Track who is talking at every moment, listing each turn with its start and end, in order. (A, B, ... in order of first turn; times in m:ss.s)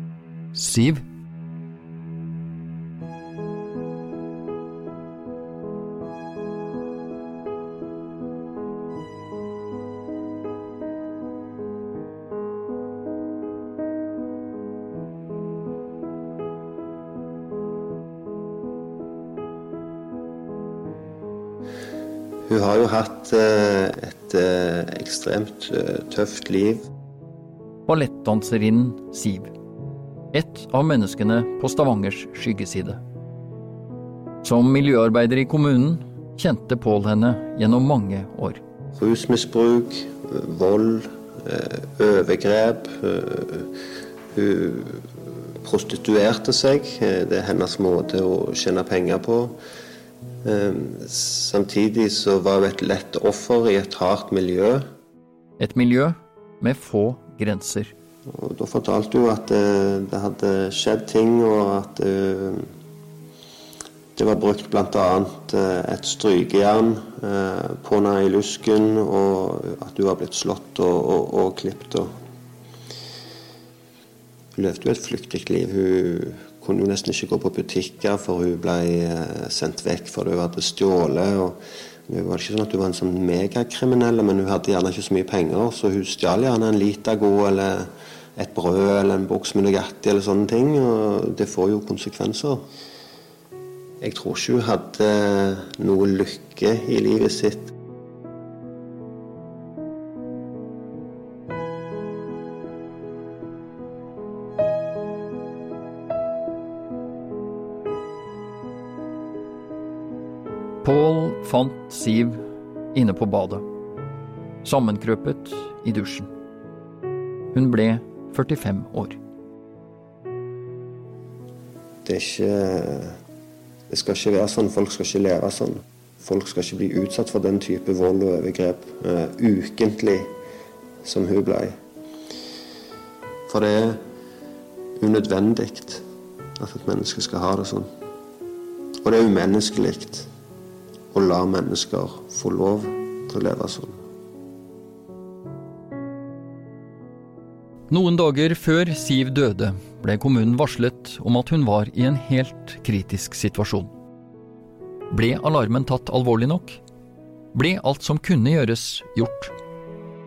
0:00.5-0:01.0 A
0:22.5-0:26.9 B
0:27.9-0:29.5 A
0:30.3-0:33.0 A
0:34.4-0:38.6 A
0:38.9-0:43.7 B
0:44.3-0:45.1 B
0:45.6-0:49.6 B
0:50.4-0:54.8 B
0:55.6-0:57.9 A
0:58.3-1:02.7 B
1:04.2-1:12.1 B
1:14.6-1:21.6 B
1:22.1-1:32.6 B
1:34.0-1:37.7 B
1:50.8-1:53.6 A
1:54.6-1:56.3 A
1:57.5-1:59.2 A
2:02.0-2:03.2 B
2:03.9-2:10.3 B
2:11.0-2:11.8 B
2:13.5-2:14.0 B
2:15.0-2:16.0 B
2:16.6-2:17.9 B
2:19.0-2:20.3 B
2:21.1-2:24.0 B
2:27.9-2:33.9 A
2:35.1-2:36.8 A
2:37.5-2:39.5 A